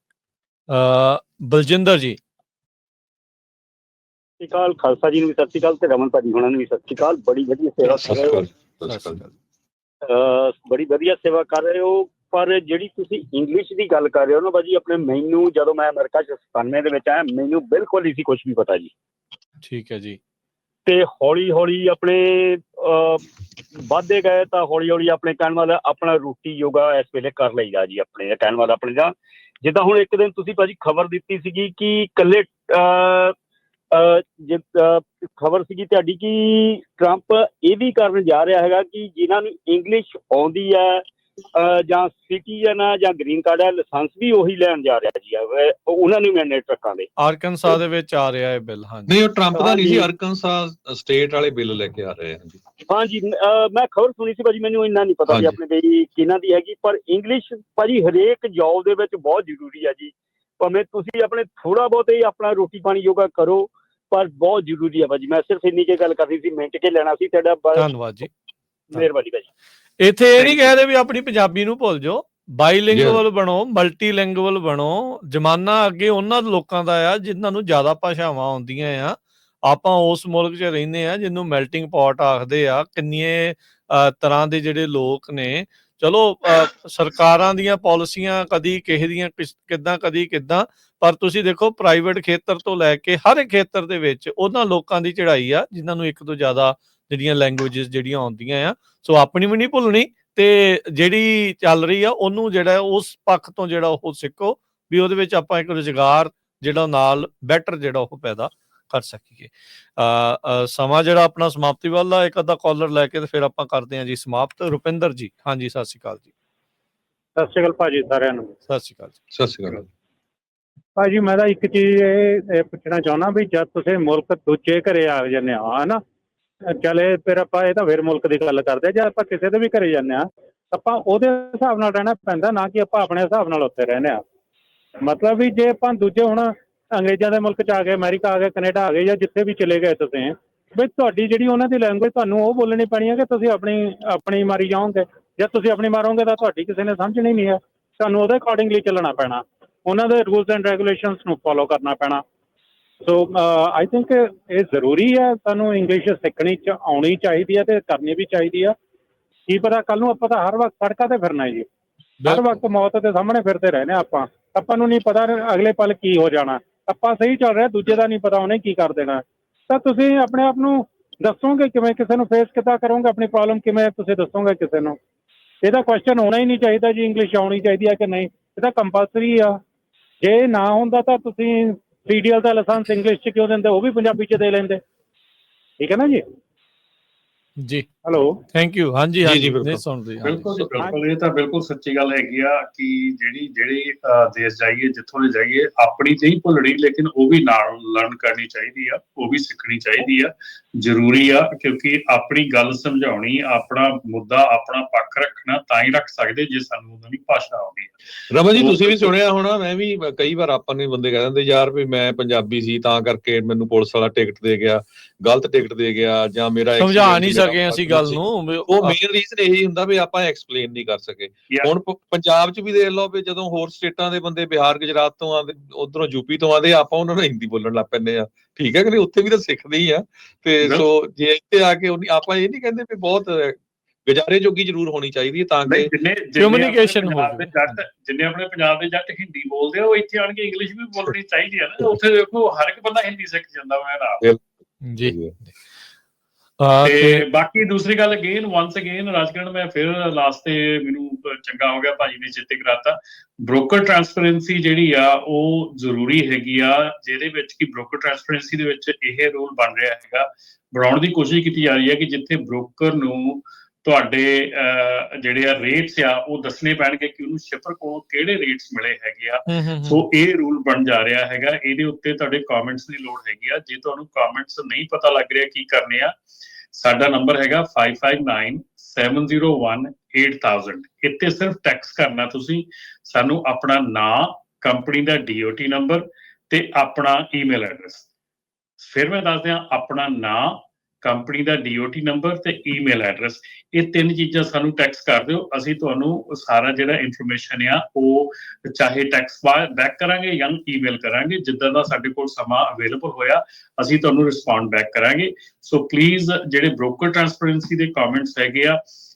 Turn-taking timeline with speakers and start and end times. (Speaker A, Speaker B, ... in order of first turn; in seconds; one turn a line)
Speaker A: 0.7-2.2
Speaker B: 4.4-8.4
Speaker C: 7.9-9.2
Speaker A: 8.8-9.3
Speaker B: 10.1-18.9
Speaker A: 19.6-20.2
Speaker B: 20.9-33.3
Speaker B: 33.9-41.0
Speaker B: 41.5-47.1
Speaker A: 47.2-49.1
Speaker C: 49.1-52.6
Speaker B: 49.5-50.1
Speaker B: 52.9-67.9
Speaker C: 55.3-55.5
Speaker A: 67.8-68.3
Speaker B: 68.9-69.5
Speaker A: 70.0-116.3
Speaker B: 70.4-70.7
Speaker C: 72.9-73.2
Speaker D: 117.3-118.5
Speaker A: 118.7-119.2
Speaker C: 119.3-119.9
Speaker D: 121.0-126.0
Speaker D: 126.7-134.2
Speaker D: 135.0-152.2
Speaker D: 153.0-158.7
Speaker D: 159.5-161.7
Speaker A: 162.2-162.6
Speaker D: 162.3-175.0
Speaker D: 175.6-179.6
Speaker D: 180.2-184.8
Speaker D: 185.8-186.2
Speaker A: 187.6-187.9
Speaker D: 188.0-188.4
Speaker A: 188.5-190.5
Speaker C: 189.2-189.8
Speaker E: 190.2-207.9
Speaker C: 190.4-190.8
Speaker C: 208.3-235.9
Speaker E: 208.5-209.1
Speaker A: 216.8-218.9
Speaker E: 235.7-244.2
Speaker A: 236.4-237.8
Speaker A: 244.8-245.5
Speaker C: 245.0-245.3
Speaker A: 246.6-247.2
Speaker E: 246.8-276.1
Speaker A: 269.5-270.0
Speaker E: 276.7-288.1
Speaker E: 288.8-308.8